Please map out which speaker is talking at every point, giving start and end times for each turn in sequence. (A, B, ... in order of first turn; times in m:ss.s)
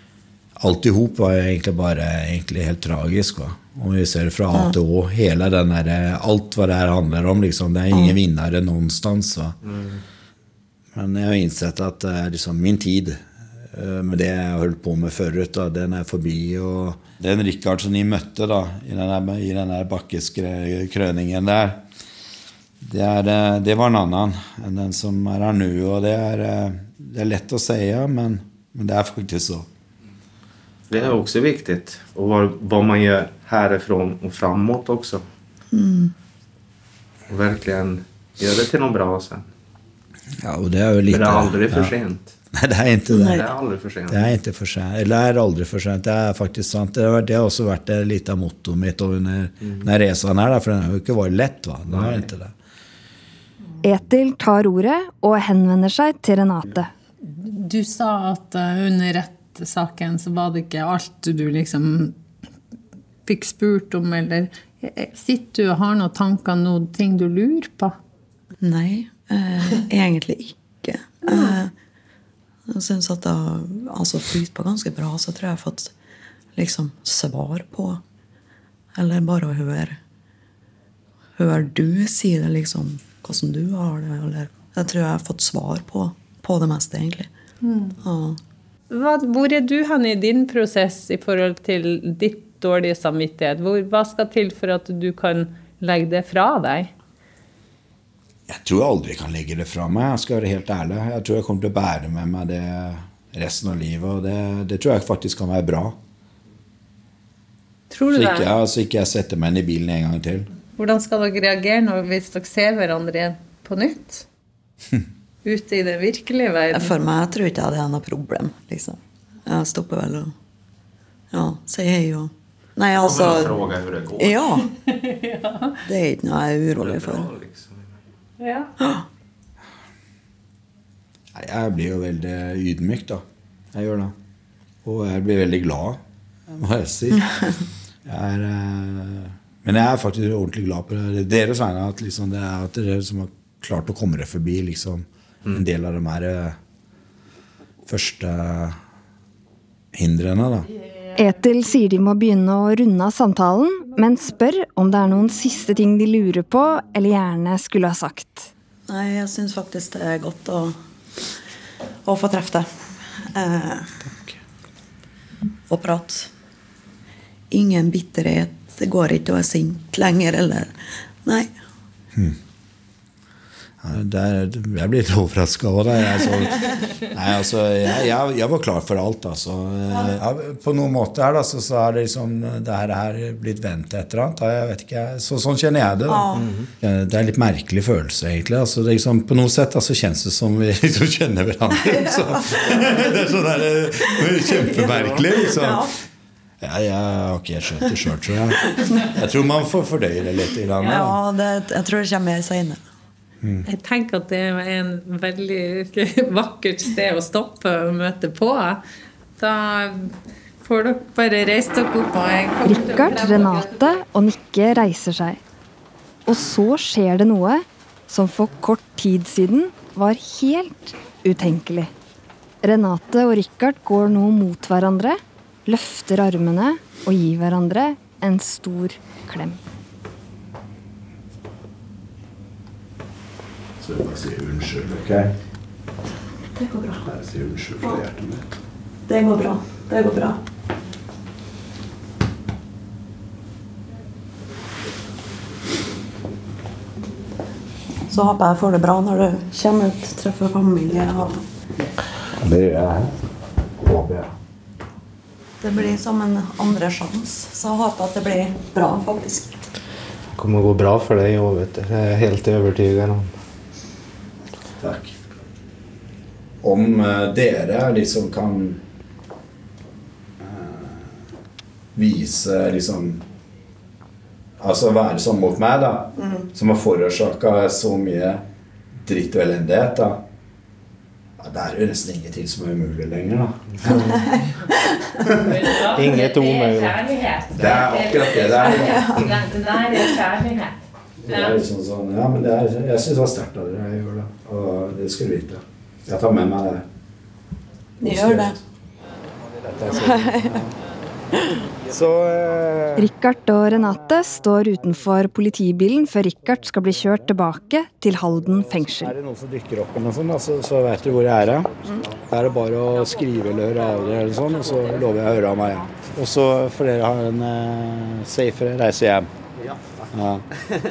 0:00.6-0:09.6 A
0:09.6-0:10.0 B
0:10.9-0:21.8 A
0:22.8-0:29.7 A
0:30.9-0:35.2 B
0:35.7-0:36.1 C
0:37.3-0:39.5 B
0:40.4-0:41.9 A
0:41.1-0:42.3 B
0:42.5-0:43.4 A
0:43.1-0:43.4 C
0:43.1-0:44.3 B
0:44.1-0:52.5 A
0:51.9-0:52.2 B
0:53.8-0:56.9 D
0:57.2-1:02.2 E
1:03.2-1:08.0 E
1:08.6-1:11.7 C
1:12.7-1:15.9 C
1:16.6-1:18.0 C
1:18.9-1:20.0 C
1:21.4-1:27.3 C
1:27.6-1:28.0 E
1:28.0-1:28.4 C
1:28.9-1:36.9 E
1:38.5-1:46.0 A
1:47.9-1:48.5 E
1:48.1-1:50.5 A
1:50.7-1:54.2 E
1:55.4-1:56.9 E
1:56.7-2:00.3 C
2:01.3-2:04.7 C
2:03.0-2:04.6 B
2:04.8-2:05.8 E
2:05.8-2:07.3 C
2:06.8-2:07.9 B
2:08.4-2:08.7 E
2:08.8-2:09.0 C
2:11.3-2:14.1 A
2:14.8-2:17.3 A
2:18.0-2:26.6 A
2:27.9-2:28.8 A
2:29.9-2:30.7 A
2:31.2-2:38.5 D
2:38.9-2:40.7 C
2:42.0-2:44.0 C
2:45.7-2:46.3 C
2:47.5-2:50.7 C
2:51.2-2:51.5 C
2:53.8-3:16.0 A
3:06.1-3:06.5 C
3:06.4-3:06.7 B
3:14.3-3:15.9 C
3:16.6-3:21.2 A
3:18.7-3:19.0 C
3:20.8-3:22.8 C
3:23.6-3:28.8 E
3:29.4-3:33.9 E
3:32.6-3:35.4 D
3:36.2-3:41.9 D
3:42.6-3:49.6 D
3:53.8-3:55.3 A
3:56.5-3:57.1 C
3:57.0-3:58.5 A
3:59.1-4:00.4 C
4:08.1-4:11.4 C
4:12.4-4:13.1 A
4:13.8-4:14.3 A
4:15.6-4:19.6 C
4:20.3-4:23.3 B
4:24.8-4:25.2 A
4:26.6-4:28.8 A
4:30.4-4:31.2 A
4:31.9-4:33.2 A
4:34.6-4:38.4 A
4:36.2-4:36.4 C
4:39.0-4:40.2 A
4:41.4-4:44.2 A
4:44.1-4:44.4 C
4:45.2-4:45.5 A
4:45.2-4:51.6 E
4:45.9-4:47.0 B
4:47.6-4:49.2 A
4:48.8-4:49.3 C
4:51.2-4:56.8 A
4:58.0-4:58.6 C
4:58.0-4:58.6 A
4:59.6-5:00.7 A
4:59.9-5:00.6 C
5:01.3-5:01.6 C
5:01.8-5:03.1 A
5:03.0-5:09.1 D
5:08.8-5:19.3 A
5:20.0-5:20.5 A